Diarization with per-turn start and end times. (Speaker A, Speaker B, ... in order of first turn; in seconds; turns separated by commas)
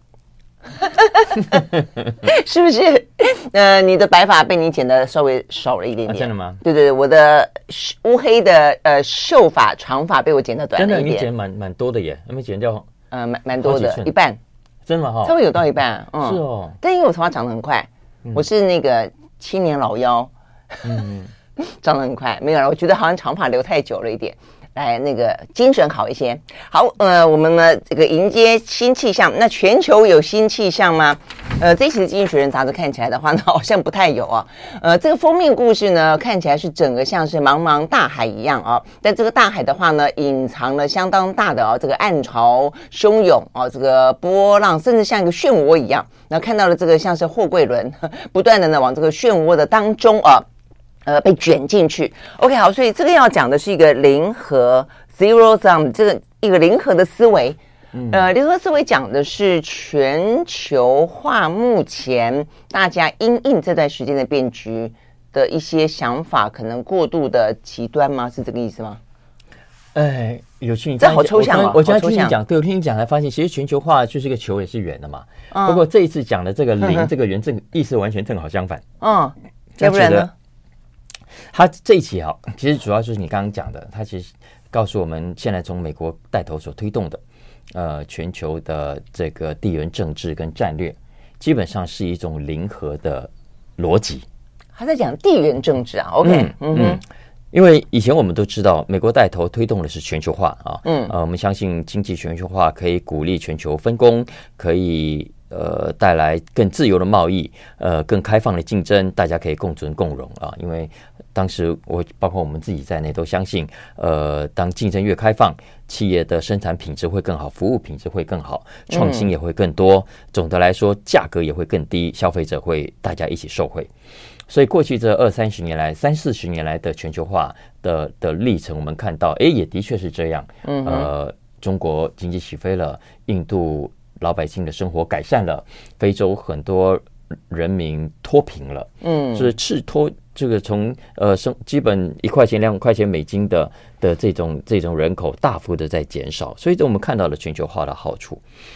Speaker A: 0.8-1.7, Speaker A: 2.2-11.3, Speaker B: 6.1-6.6, Speaker B: 10.8-12.9, Speaker A: 13.1-14.4, Speaker B: 13.6-14.1, Speaker B: 14.9-15.3, Speaker A: 15.2-20.3, Speaker B: 16.2-16.8, Speaker B: 20.8-21.3, Speaker A: 21.6-50.5, Speaker A: 51.1-57.6, Speaker A: 58.1-69.0, Speaker B: 69.9-78.8, Speaker A: 71.0-72.3, Speaker A: 75.5-75.8, Speaker A: 79.0-80.3, Speaker B: 79.8-80.3, Speaker B: 81.5-87.2, Speaker B: 87.7-94.3, Speaker A: 94.8-97.0, Speaker B: 96.2-123.9, Speaker A: 100.8-101.1, Speaker A: 118.9-119.3, Speaker B: 124.5-148.4, Speaker A: 130.6-131.1, Speaker A: 139.0-139.5